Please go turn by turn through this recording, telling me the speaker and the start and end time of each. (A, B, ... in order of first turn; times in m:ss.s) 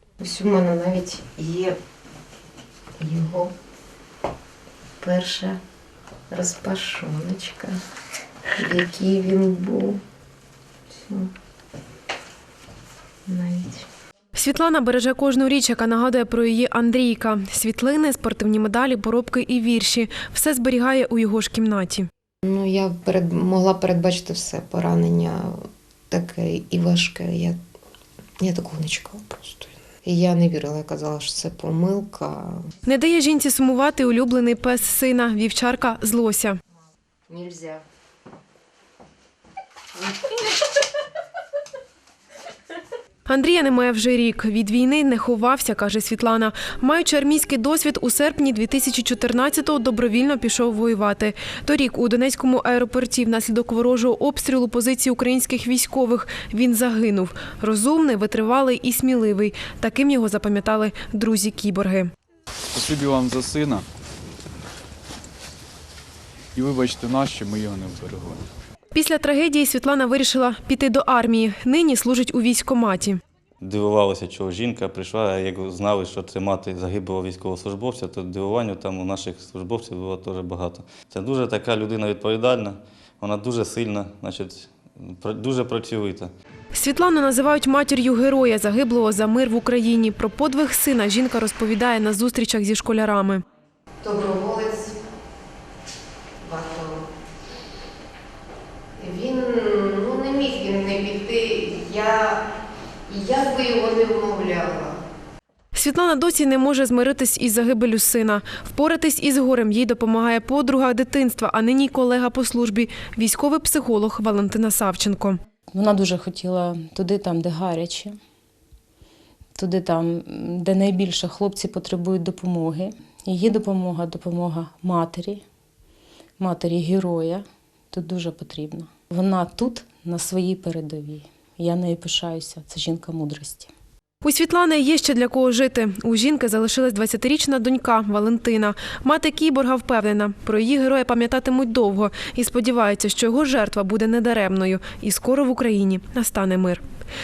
0:00.2-0:01.8 A
0:03.0-0:03.5 A
0:05.0-0:05.6 A
0:06.3-0:07.8 A
0:08.6-0:10.0 A
0:13.3-0:13.9 A
0:14.3-0:22.1 B
0:22.4-0:27.6 A
0:28.4-0:32.7 A
0:32.8-0:36.6 B
0:37.3-0:37.8 A
0:43.2-1:02.1 B
1:02.7-1:03.8 C
1:06.5-1:08.4 C
1:08.9-1:13.2 B
1:13.6-1:26.3 D
1:26.7-1:33.4 B
1:34.0-1:35.0 A
1:36.4-1:37.1 A
1:39.0-1:42.4 A
1:43.1-1:45.0 A
1:45.7-1:55.4 B
1:55.7-1:58.2 E
1:59.6-2:05.4 E
2:06.4-2:13.7 E
2:14.2-2:26.8 B